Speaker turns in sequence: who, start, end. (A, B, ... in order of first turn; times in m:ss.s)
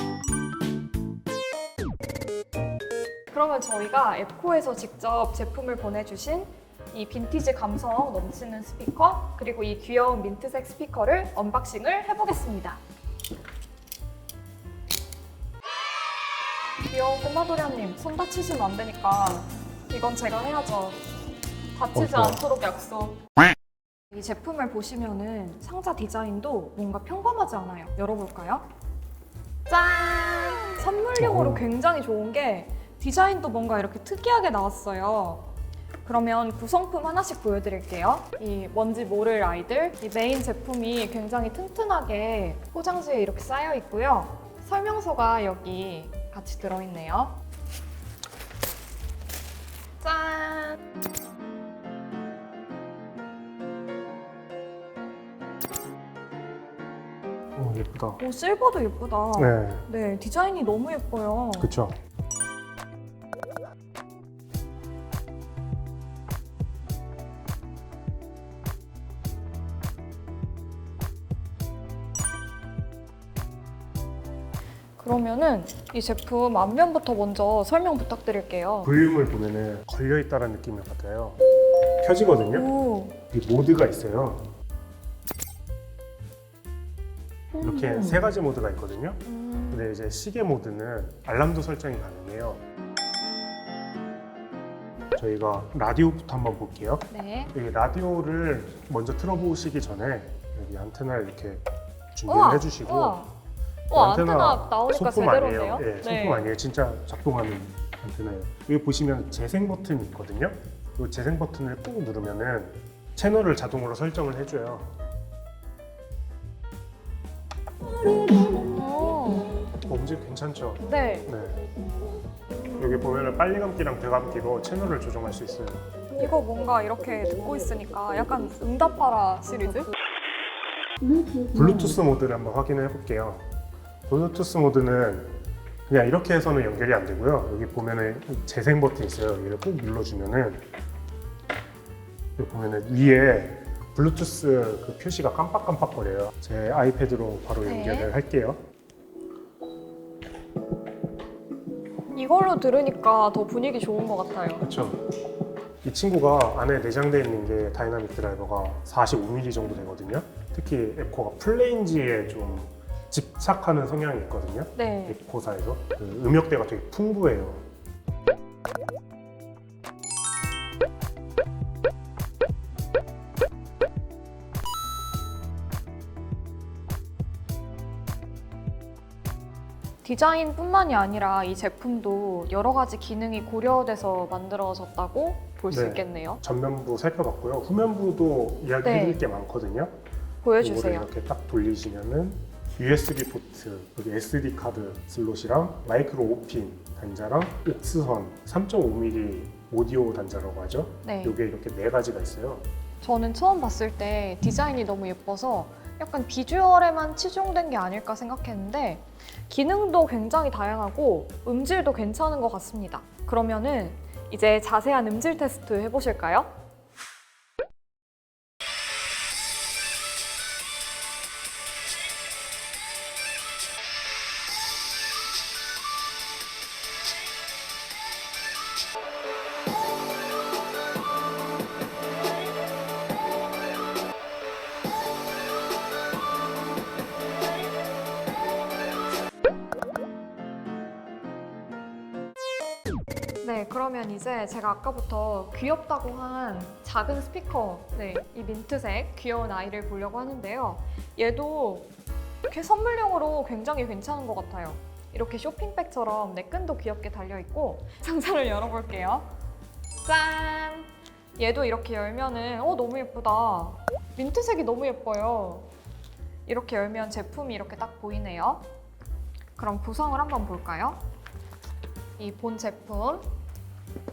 0:03.3-0:12.8 A
0:16.9-0:21.0 A
0:21.8-0:23.2 A
0:21.9-0:22.4 B
0:24.1-0:28.6 A
0:29.7-0:35.5 A
0:31.2-0:31.7 B
0:36.0-0:47.4 A
0:50.0-0:50.8 A
0:57.6-0:58.2 B
0:58.2-1:01.7 A
0:59.4-0:59.8 B
1:01.6-1:02.0 B
1:15.0-1:18.9 A
1:18.8-1:21.4 B
1:22.0-1:22.7 B
1:22.5-1:23.2 A
1:23.3-1:24.4 B
1:27.6-1:28.3 A
1:27.6-1:32.6 B
1:29.2-1:29.9 A
1:35.2-1:41.6 B
1:37.1-1:37.5 A
1:42.1-1:43.2 B
1:42.2-1:43.3 A
1:43.9-1:46.5 A
1:43.9-1:54.9 B
1:58.5-1:59.5 A
1:59.8-2:01.6 B
2:00.8-2:01.3 A
2:02.8-2:05.8 B
2:06.1-2:09.9 A
2:11.4-2:13.4 B
2:14.1-2:20.6 B
2:22.4-2:28.6 B
2:27.6-2:28.1 A
2:32.1-2:34.6 A
2:34.6-2:35.0 B
2:35.8-2:47.6 B
2:44.8-2:45.2 A
3:00.0-3:06.4 A
3:05.7-3:09.9 B
3:08.8-3:09.2 A
3:10.4-3:11.1 A
3:10.6-3:22.6 B
3:21.0-3:21.4 A
3:23.0-3:36.5 A
4:03.4-4:11.9 A
4:12.5-4:19.3 A
4:20.0-4:25.7 A
4:26.5-4:28.6 A
4:29.6-4:31.0 A
4:32.2-4:33.2 A